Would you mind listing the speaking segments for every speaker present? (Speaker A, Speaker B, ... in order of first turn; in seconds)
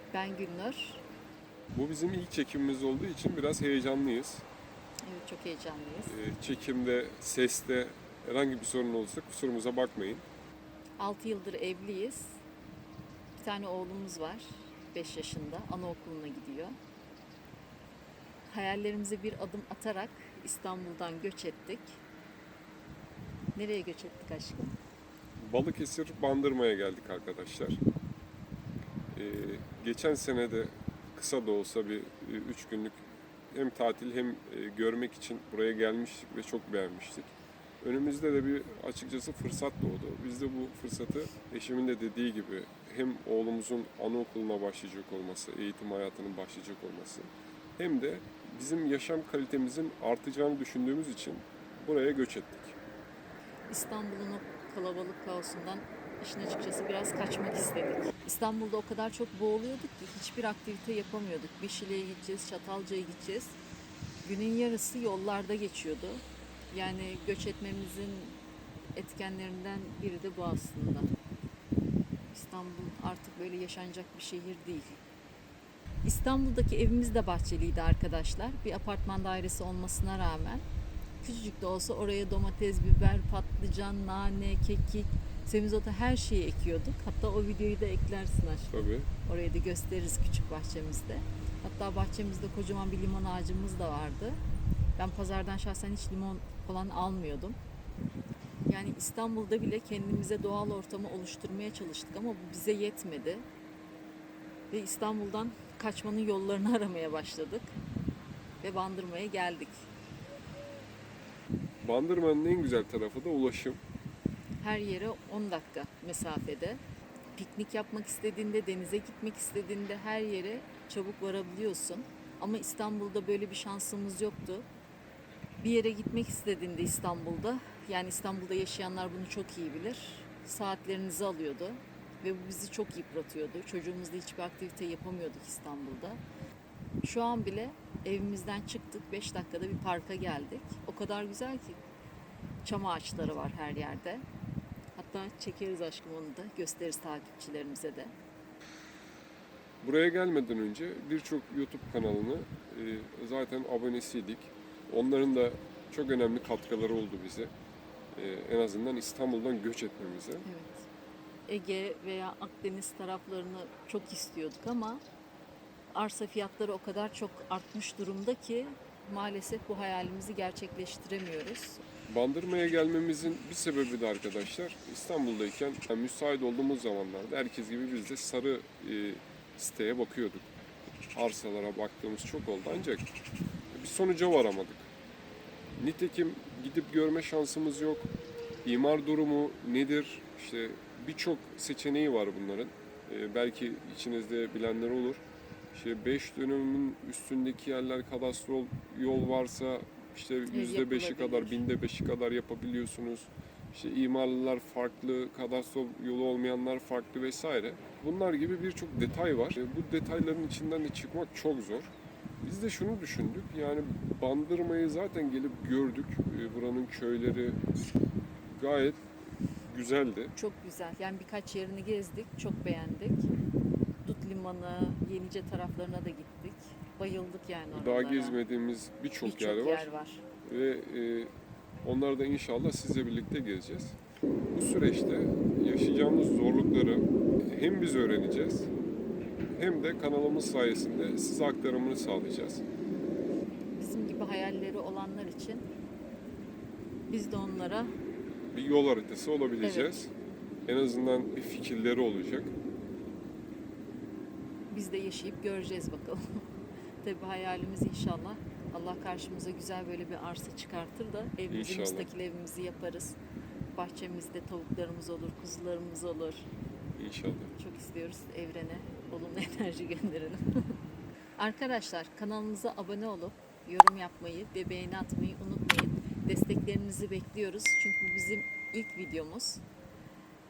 Speaker A: 0.1-1.0, 5.0-6.1, 11.0-12.4, 13.4-16.8, 18.5-22.0, 23.5-24.7, 53.7-63.5, 64.2-68.4, 68.9-71.1, 72.3-75.0, 76.0-80.6, 81.2-88.7, 89.2-94.4, 95.0-97.6, 98.7-103.4, 104.7-107.8, 108.6-109.8, 114.6-116.8, 117.3-124.7, 125.6-136.2, 137.0-141.8, 142.6-144.2, 144.9-148.1, 160.4-160.8, 161.5-165.0, 165.9-171.8, 200.5-201.6, 220.3-223.3, 224.0-228.4, 229.2-230.2, 243.7-245.7, 247.1-247.9, 249.6-250.0, 254.7-256.5, 257.0-263.2, 263.7-266.4, 267.6-270.8, 271.4-279.6
Speaker B: 1.7-4.4, 6.0-10.2, 25.4-27.8, 29.1-52.8, 88.7-89.1, 111.8-113.8, 149.8-157.5, 158.1-160.4, 172.1-180.5, 181.1-183.1, 183.7-184.9, 185.8-188.1, 188.6-211.9, 212.4-217.6, 218.5-219.0, 219.7-220.3, 227.7-229.9, 230.4-231.3, 231.8-234.0, 234.5-238.7, 239.5-242.6, 248.5-250.1, 250.7-252.5, 261.5-262.1, 266.9-267.5